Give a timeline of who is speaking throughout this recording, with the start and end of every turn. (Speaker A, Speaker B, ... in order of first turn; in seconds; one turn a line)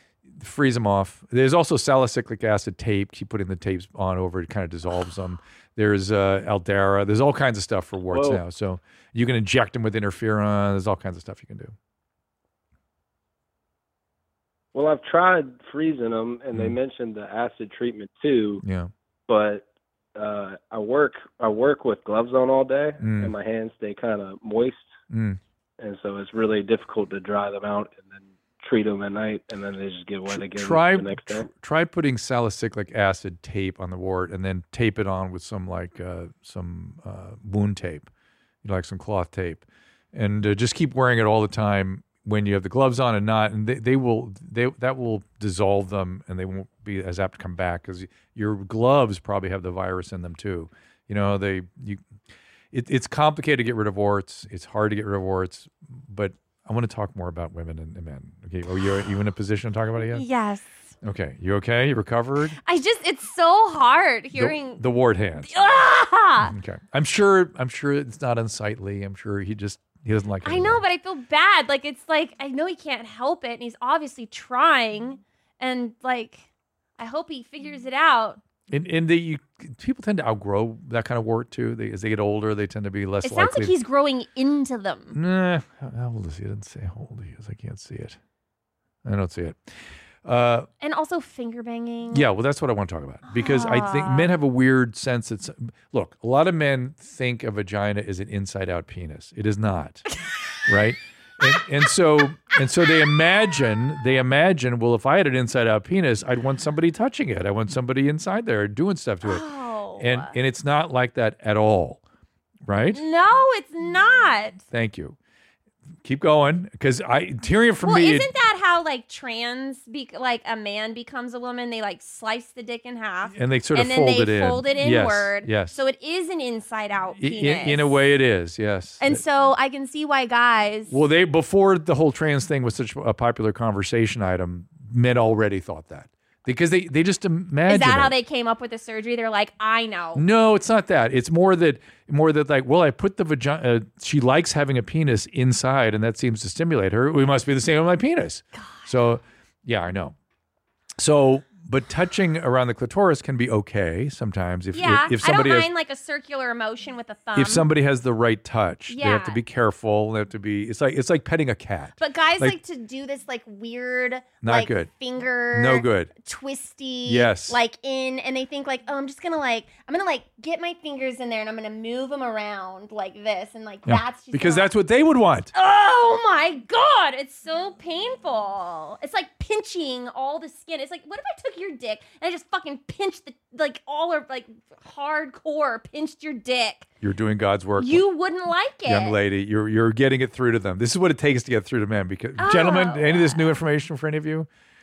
Speaker A: 0.3-11.7
Speaker B: 8.1-8.4
Speaker B: 14.7-18.6
Speaker A: 18.6-18.9
Speaker B: 19.3-19.6
Speaker B: 20.1-24.9
Speaker A: 23.0-23.3
Speaker A: 25.1-25.4
Speaker B: 25.8-31.5
Speaker A: 30.3-38.1
Speaker A: 38.6-52.0
Speaker A: 52.7-60.2
Speaker C: 60.1-60.6
Speaker A: 61.0-62.6
Speaker C: 62.6-64.8
Speaker A: 64.3-65.5
Speaker C: 65.4-66.5
Speaker A: 66.4-70.8
Speaker C: 70.4-76.5
Speaker C: 77.0-78.4
Speaker A: 78.7-83.7
Speaker C: 83.2-85.1
Speaker A: 85.1-88.2
Speaker A: 89.0-90.7
Speaker C: 90.8-92.2
Speaker A: 92.1-100.0
Speaker C: 93.3-94.3
Speaker A: 100.7-109.4
Speaker C: 109.2-110.3
Speaker A: 110.0-112.0
Speaker A: 112.6-113.0
Speaker C: 112.9-114.6
Speaker A: 114.7-115.2
Speaker A: 116.0-118.3
Speaker C: 117.8-127.9
Speaker A: 123.3-125.8
Speaker A: 127.2-129.2
Speaker C: 129.0-130.9
Speaker A: 130.9-138.2
Speaker C: 137.7-140.2
Speaker A: 140.1-150.1
Speaker C: 148.6-148.9
Speaker A: 151.0-155.7
Speaker C: 154.7-157.6
Speaker A: 157.3-162.6
Speaker C: 158.9-159.4
Speaker C: 162.0-174.7
Speaker A: 164.4-164.9
Speaker A: 165.5-166.1
Speaker A: 167.0-167.6
Speaker A: 173.8-175.5
Speaker C: 175.5-186.9
Speaker A: 187.0-188.1
Speaker C: 187.8-189.1
Speaker A: 188.8-194.5
Speaker C: 192.4-193.6